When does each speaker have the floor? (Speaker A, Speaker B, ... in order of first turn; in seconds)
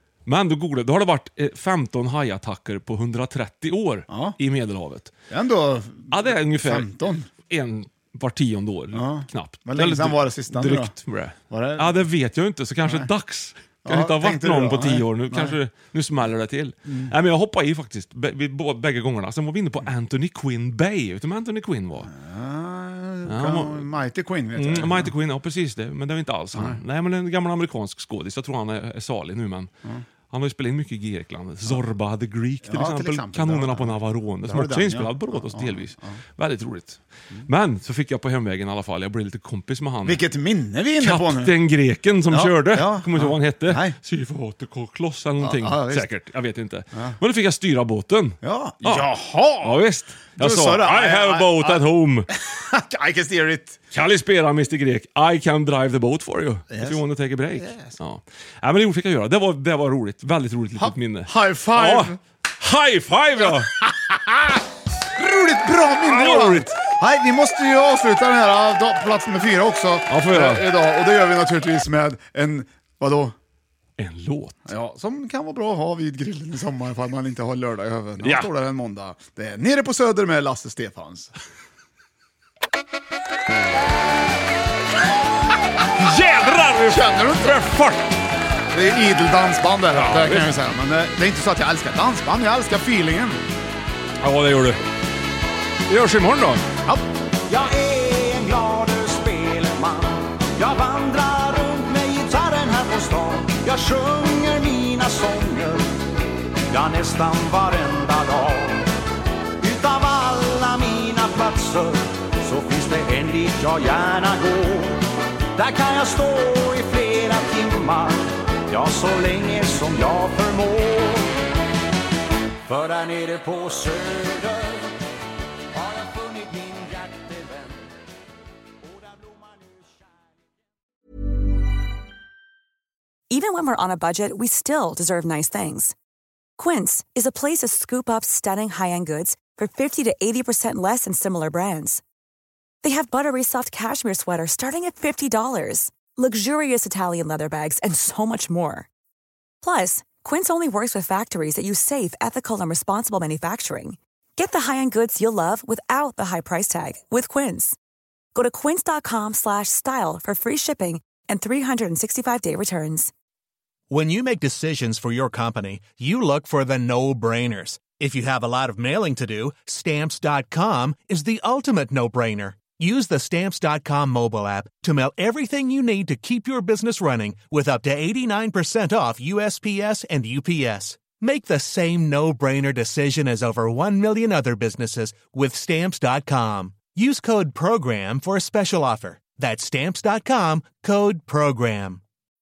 Speaker A: 0.2-5.1, 6.1-6.9, 7.5-22.1, 23.3-23.9, 24.6-29.7, 30.3-40.2, 41.0-49.0, 49.6-52.3, 53.9-63.7, 66.0-66.7, 70.1-70.7, 74.0-74.6, 78.2-78.5, 85.9-88.1, 89.9-90.6, 94.2-94.8, 95.9-96.6
Speaker B: 4.1-4.4, 5.3-7.3, 8.9-10.9, 11.5-12.0, 12.8-13.1, 13.8-15.6, 16.9-17.1, 22.1-25.1, 26.5-26.8, 32.6-36.2, 40.0-41.6, 42.3-44.0, 45.4-46.1, 48.4-49.8, 50.4-53.8, 56.7-58.0, 60.8-62.2, 63.5-64.6, 65.2-73.3, 74.7-81.3, 86.9-87.9, 88.7-93.4
Speaker C: 97.5-105.8, 106.7-108.9, 109.6-121.4, 122.7-124.9, 125.7-127.8, 128.8-130.2
Speaker D: 133.3-135.9, 136.6-142.0, 142.8-148.9, 149.6-157.8, 158.3-163.1
Speaker E: 163.9-192.0